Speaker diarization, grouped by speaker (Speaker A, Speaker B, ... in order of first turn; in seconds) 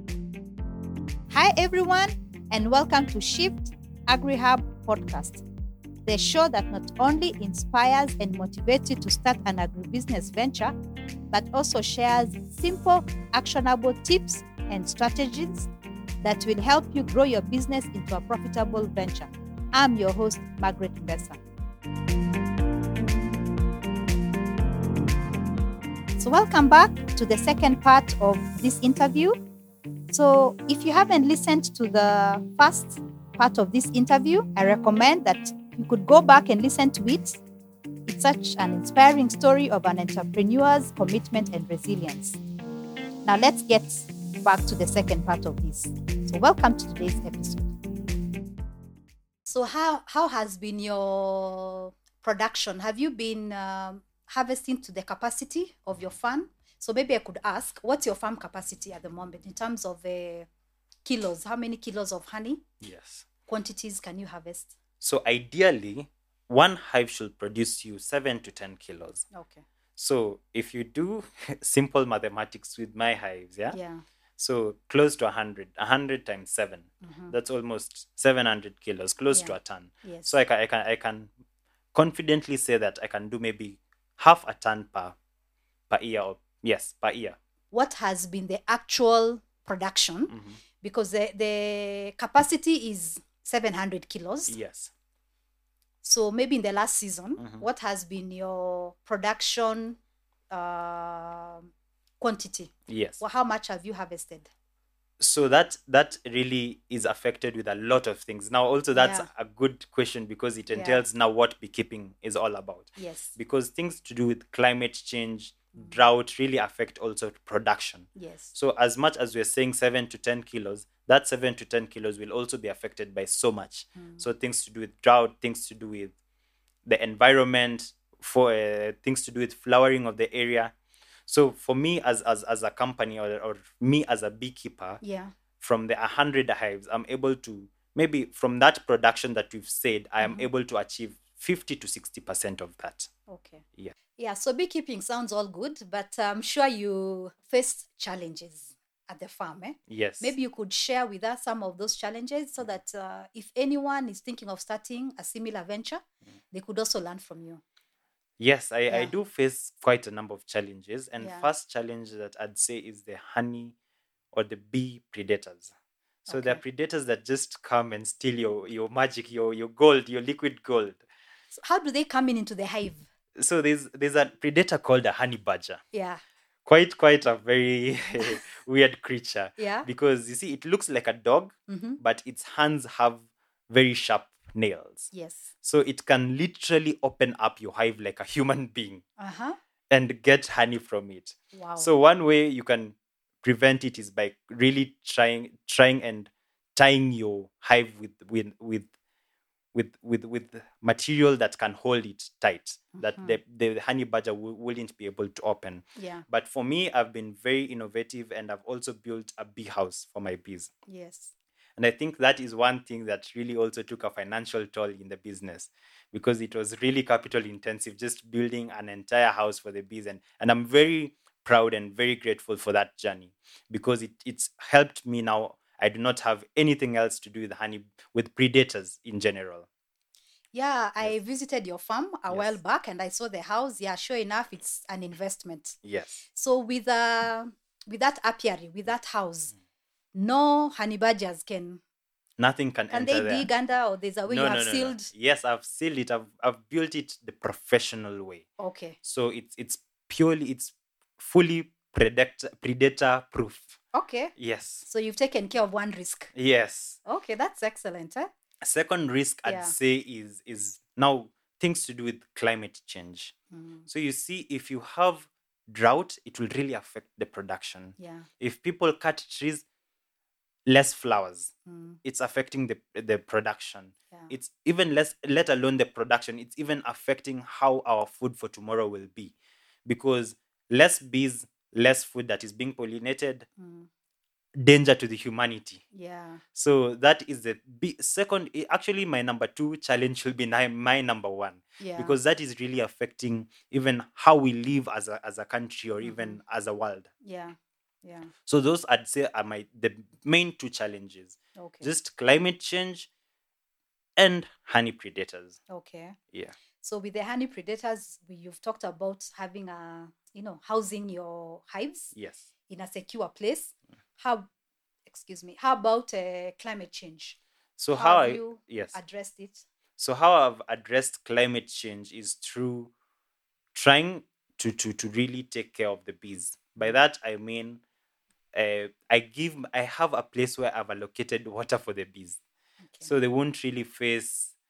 Speaker A: 1.3-5.4, 6.1-10.8, 11.3-15.7, 16.2-21.4, 26.2-29.4, 30.1-37.4, 38.1-42.4, 43.2-47.7, 49.5-60.5, 61.0-62.6, 63.5-64.7, 69.3-69.6, 73.7-74.0, 77.0-77.3, 79.3-80.3, 87.7-94.6, 96.0-100.0, 100.5-101.7, 102.2-104.5, 108.9-109.3, 110.7-111.0, 113.0-113.3, 118.2-118.5, 124.0-124.3, 135.0-135.3, 140.2-140.5, 143.3-143.6, 144.2-157.6, 161.2-161.5, 166.3-166.6, 171.5-173.1, 175.9-176.2, 179.6-179.9, 181.7-182.0, 185.1-185.5, 189.2-189.6, 191.5-191.9, 202.9-203.4, 206.0-206.2, 210.9-211.3, 230.5-235.8, 236.3-239.5, 240.1-241.8, 242.9-245.1, 248.6-249.0, 253.9-254.3, 254.8-256.3, 257.1-258.3, 259.4-259.8, 263.5-263.9, 268.0-268.3, 271.7-272.0, 283.6-283.9, 285.9-286.4, 291.8-292.1, 296.0-296.4, 297.2-298.3, 301.6-301.9, 305.7-306.2, 306.8-312.1, 312.7-314.5, 315.1-317.4, 317.9-319.6
Speaker B: 62.8-63.3, 65.0-69.2, 70.0-73.8, 74.4-81.3, 81.9-85.2, 85.9-87.4, 90.3-90.6, 94.5-94.9, 97.4-97.7, 102.9-103.2, 105.2-126.1, 126.8-130.8, 131.3-135.0, 135.6-143.1, 149.9-150.3, 158.4-163.8, 164.3-165.7, 166.3-171.0, 173.4-175.8, 176.7-185.1, 185.6-189.0, 189.9-198.9, 199.7-210.7, 211.8-229.7, 232.3-232.6, 235.8-236.2, 242.4-243.5, 244.3-248.5, 249.0-253.8, 254.4-254.8, 256.3-257.0, 258.6-263.3, 263.9-269.6, 270.7-271.5, 272.0-283.5, 284.6-285.8, 286.5-297.1, 298.4-303.1, 304.2-305.6, 306.3-306.6, 312.1-312.5, 317.8-319.0, 320.0-322.9, 323.7-327.8, 328.5-332.4, 333.0-334.5